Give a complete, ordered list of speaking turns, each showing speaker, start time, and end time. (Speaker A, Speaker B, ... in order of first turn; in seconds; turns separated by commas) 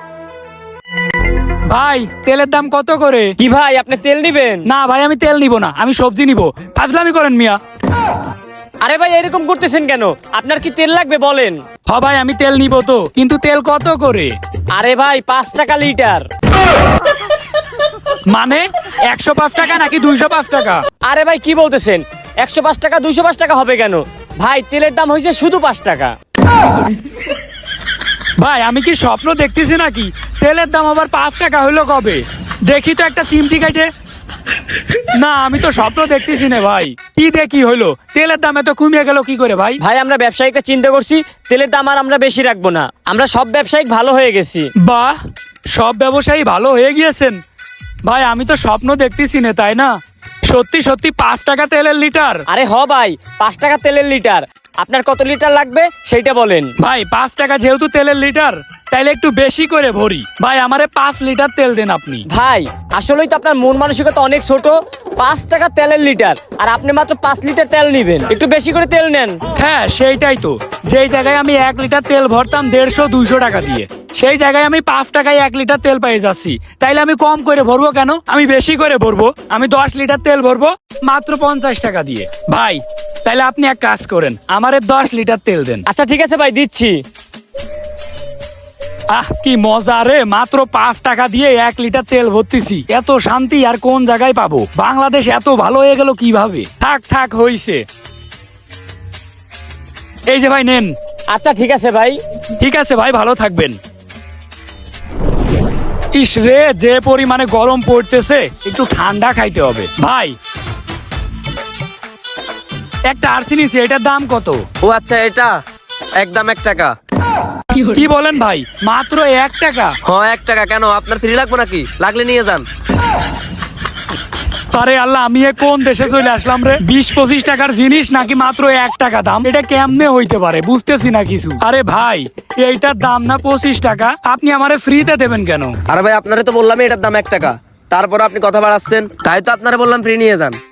Speaker A: 1.7-3.3, Speaker B: 3.4-4.7, Speaker A: 4.7-7.6, Speaker B: 8.8-11.6, Speaker A: 11.9-14.3, Speaker B: 14.8-16.2, Speaker A: 18.3-20.8, Speaker B: 21.1-26.1, Speaker A: 28.4-33.9, Speaker A: 35.1-39.8, Speaker B: 39.8-44.7, Speaker A: 44.8-45.1, Speaker A: 45.7-47.4, Speaker A: 48.0-49.9, Speaker A: 50.5-52.4, Speaker B: 52.5-56.7, Speaker A: 56.8-62.2, Speaker B: 62.3-69.4, Speaker A: 69.5-85.8, Speaker B: 85.9-87.0, Speaker A: 89.1-97.8, Speaker A: 100.3-100.9, Speaker B: 101.3-102.2, Speaker A: 102.6-103.8, Speaker A: 106.1-110.3, Speaker A: 113.1-114.6, Speaker C: 114.8-115.5, Speaker C: 116.2-116.9, Speaker A: 117.8-120.0, Speaker C: 120.0-122.7, Speaker A: 124.7-135.7, Speaker C: 135.9-140.6